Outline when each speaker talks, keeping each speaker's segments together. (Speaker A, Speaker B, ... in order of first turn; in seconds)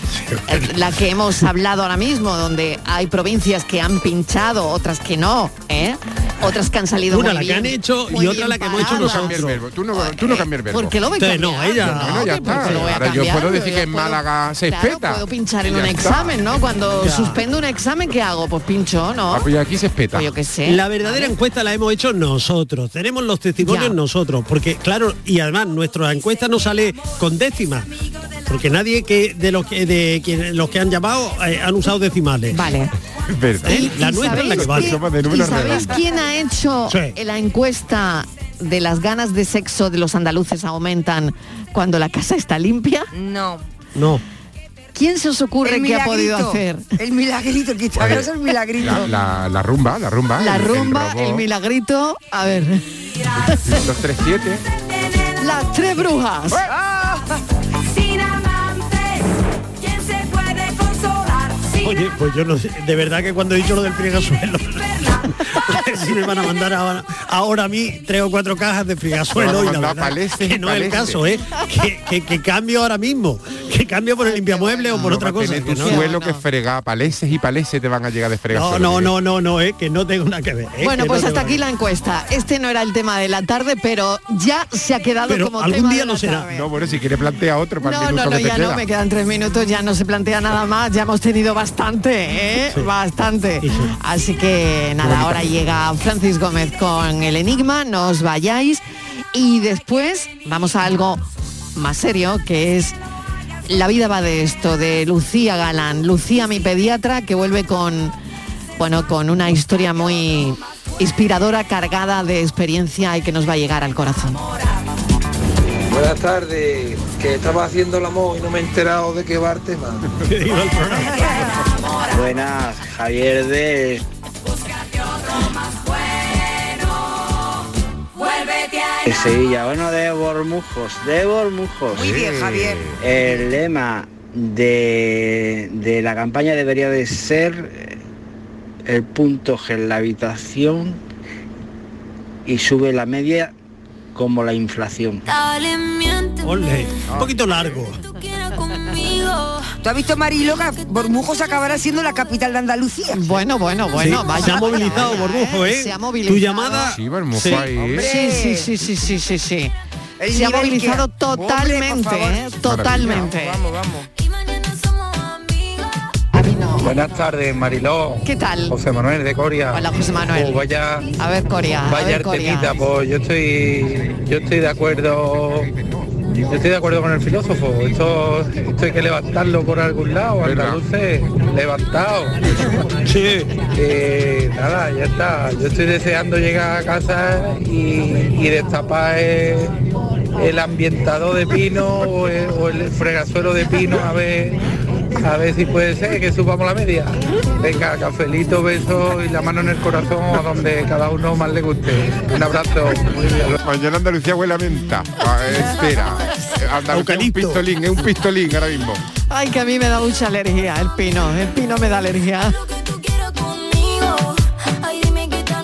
Speaker A: 0.1-0.9, 7.1-9.6, 11.2-13.2, 17.0-17.4, 20.6-27.9, 28.5-32.7, 33.6-35.0, 36.9-37.1, 44.0-44.2, 61.8-64.8, 65.5-76.0, 78.5-81.6, 85.3-86.5, 93.6-93.9, 95.0-95.4, 120.2-121.5, 146.4-148.0, 153.9-157.7, 183.1-183.5, 206.9-207.6
Speaker B: 0.5-19.5, 20.1-21.3, 23.6-23.9, 32.5-32.9, 33.6-43.1, 44.9-46.9, 50.4-52.8, 55.4-56.6, 74.2-75.2, 75.8-76.4, 80.8-86.7, 87.8-101.2, 101.8-103.0, 103.7-108.1, 108.8-114.4, 153.1-157.0, 157.9-159.7, 160.3-163.6, 166.3-167.0, 168.2-168.7, 169.7-170.6, 171.2-172.7, 209.3-212.6
Speaker C: 8.5-11.0, 11.7-16.4, 19.3-20.3, 33.3-36.0, 48.0-51.4, 53.5-54.6, 69.3-71.2, 75.0-79.1, 86.5-88.8, 131.9-133.0, 156.9-158.1, 162.6-163.3, 180.4-180.8, 203.6-209.0
Speaker D: 43.1-43.6, 45.6-49.1, 56.7-57.4, 131.9-132.8, 149.8-153.4, 157.7-158.7, 160.2-162.3
Speaker E: 57.9-62.1, 64.8-65.4, 120.9-122.3, 124.4-127.1, 128.1-129.3
Speaker F: 122.2-124.0, 129.1-131.9, 133.0-137.7, 138.9-141.0, 142.5-143.5, 144.2-145.2
Speaker G: 166.8-171.1, 171.8-175.7, 176.4-182.7, 183.7-189.7, 190.3-194.6, 195.2-203.6